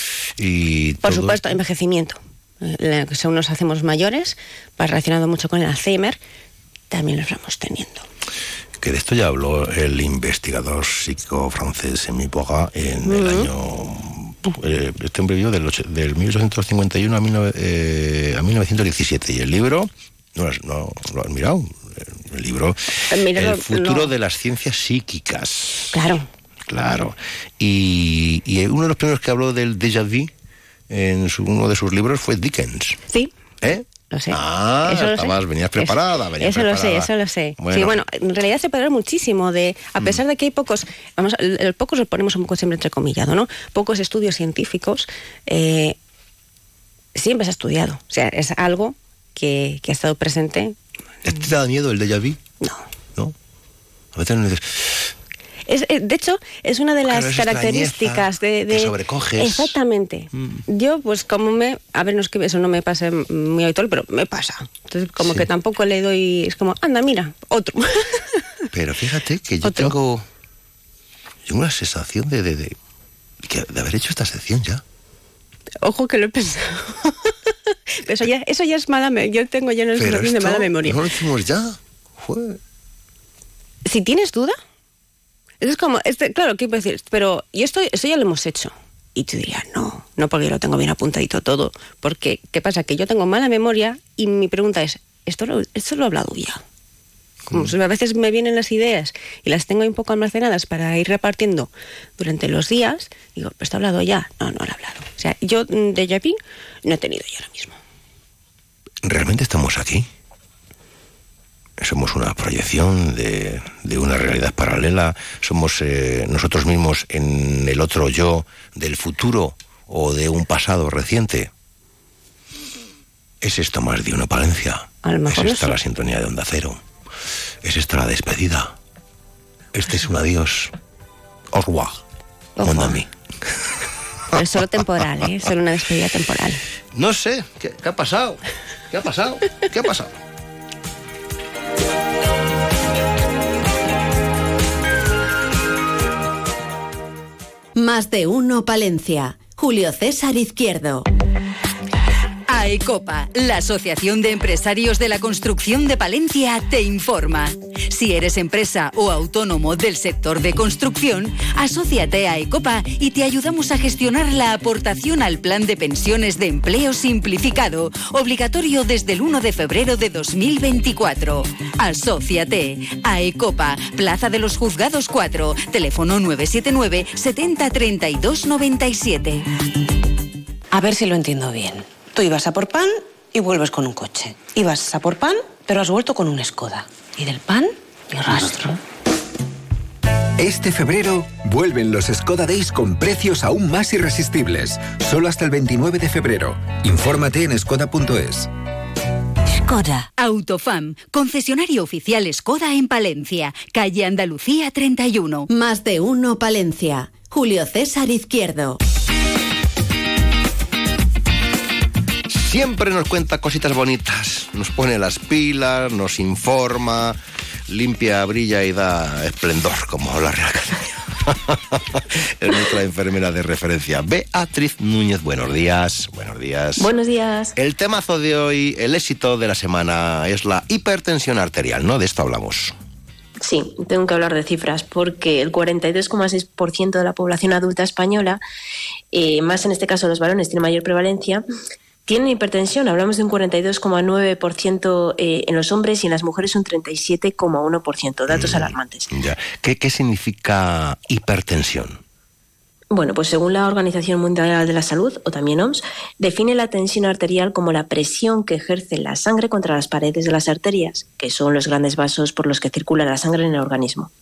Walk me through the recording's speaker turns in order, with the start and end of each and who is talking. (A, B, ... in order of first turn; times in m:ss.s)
0:00.4-0:01.5 A
0:01.0-0:06.2 B
0:06.9-0:08.0 B
0:08.8-0:26.0 A
0:13.0-0:13.5 B
0:23.1-0:24.1 B
0:25.9-0:26.3 B
0:26.7-0:30.3 A
0:30.9-0:33.0 A
0:33.6-0:38.0 A
0:34.1-0:46.0 B
0:47.1-0:50.8 B
0:51.2-0:52.4 A
0:54.1-0:55.1 A
0:55.7-1:08.4 B
0:57.1-0:59.8 A
1:00.4-1:00.6 A
1:05.2-1:05.5 A
1:08.7-1:10.2 A
1:09.6-1:09.9 B
1:11.5-1:12.8 A
1:13.4-1:14.8 A
1:15.8-1:17.3 B
1:18.0-1:21.0 B
1:20.0-1:22.6 A
1:23.8-1:24.6 B
1:25.6-1:36.6 B
1:37.5-1:47.8 B
1:49.0-1:50.1 A
1:51.8-2:01.5 A
2:03.4-2:06.8 A
2:05.0-2:05.8 B
2:07.6-2:08.7 A
2:09.7-2:10.7 A
2:11.5-2:12.0 A
2:12.6-2:13.0 B
2:12.6-2:13.1 A
2:14.3-2:16.6 B
2:16.9-2:20.2 A
2:27.8-2:31.0 C
2:32.5-2:59.4 D
3:00.7-3:08.8 E
3:10.4-3:18.5 F
3:19.6-3:25.5 D
3:25.5-3:28.8 C
3:32.3-3:37.2 A
3:37.7-3:46.9 A
3:46.8-3:47.5 G
3:47.6-3:52.8 A
3:53.4-3:58.4 G
3:59.1-4:01.4 G
4:02.0-4:09.1 G
4:08.3-4:12.0 A
4:12.9-4:24.1 G